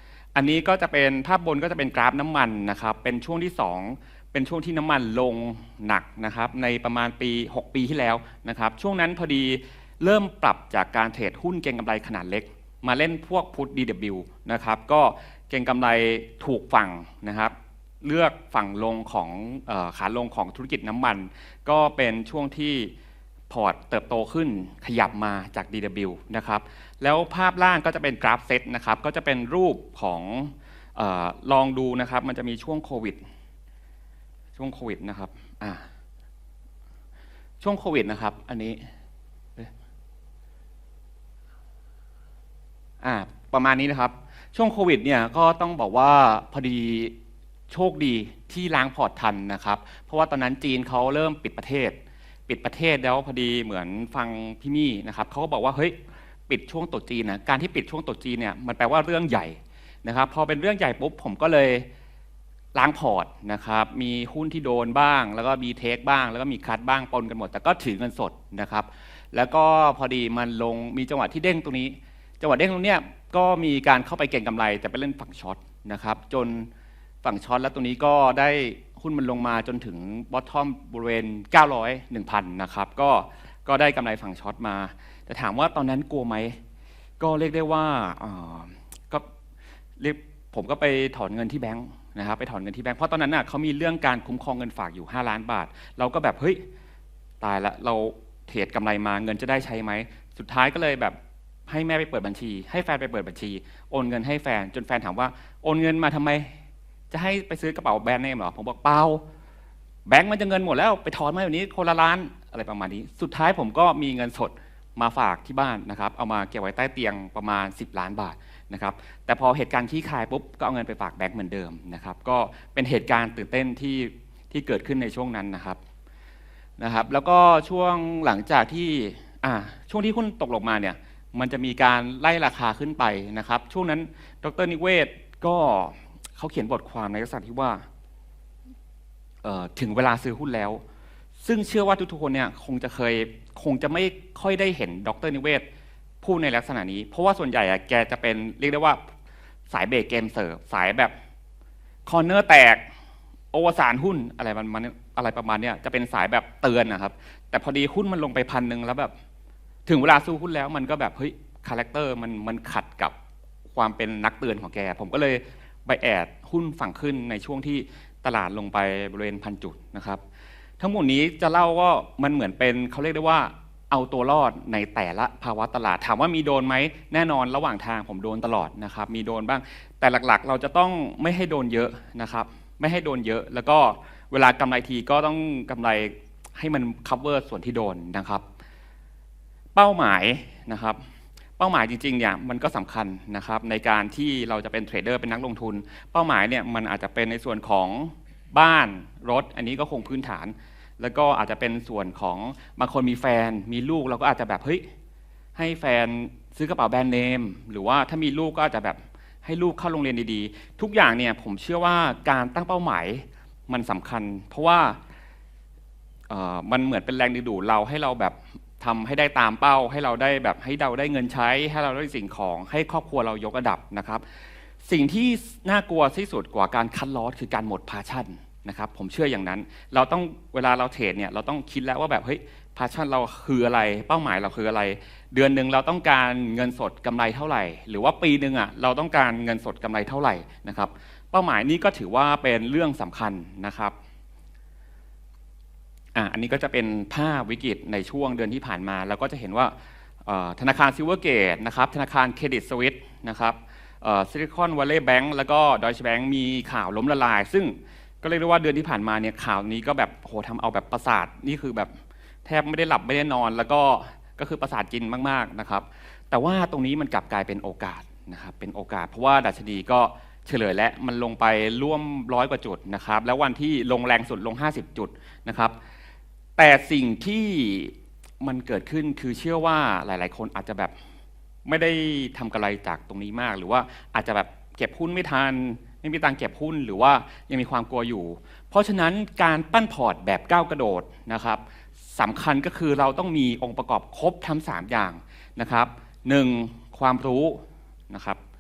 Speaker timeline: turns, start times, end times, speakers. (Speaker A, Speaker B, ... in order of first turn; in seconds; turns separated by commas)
Speaker A: 0.3-22.9, Speaker A: 23.5-33.2, Speaker A: 34.6-35.9, Speaker A: 37.6-38.9, Speaker A: 43.0-47.1, Speaker A: 47.7-56.0, Speaker A: 56.5-61.9, Speaker A: 62.8-76.7, Speaker A: 77.2-86.6, Speaker A: 87.2-89.2, Speaker A: 90.0-96.6, Speaker A: 97.4-101.2, Speaker A: 101.7-106.5, Speaker A: 107.1-109.2, Speaker A: 110.1-125.8, Speaker A: 126.8-137.9, Speaker A: 139.4-140.8, Speaker A: 141.4-145.7, Speaker A: 146.2-149.1, Speaker A: 149.7-151.1, Speaker A: 152.1-152.8, Speaker A: 153.5-159.1, Speaker A: 159.9-163.1, Speaker A: 163.7-170.2, Speaker A: 170.8-188.4, Speaker A: 189.8-191.0, Speaker A: 191.6-204.8, Speaker A: 205.6-215.0, Speaker A: 216.3-224.3, Speaker A: 224.8-243.9, Speaker A: 246.2-261.9, Speaker A: 262.4-275.8, Speaker A: 276.6-280.9, Speaker A: 281.7-291.6, Speaker A: 292.1-298.4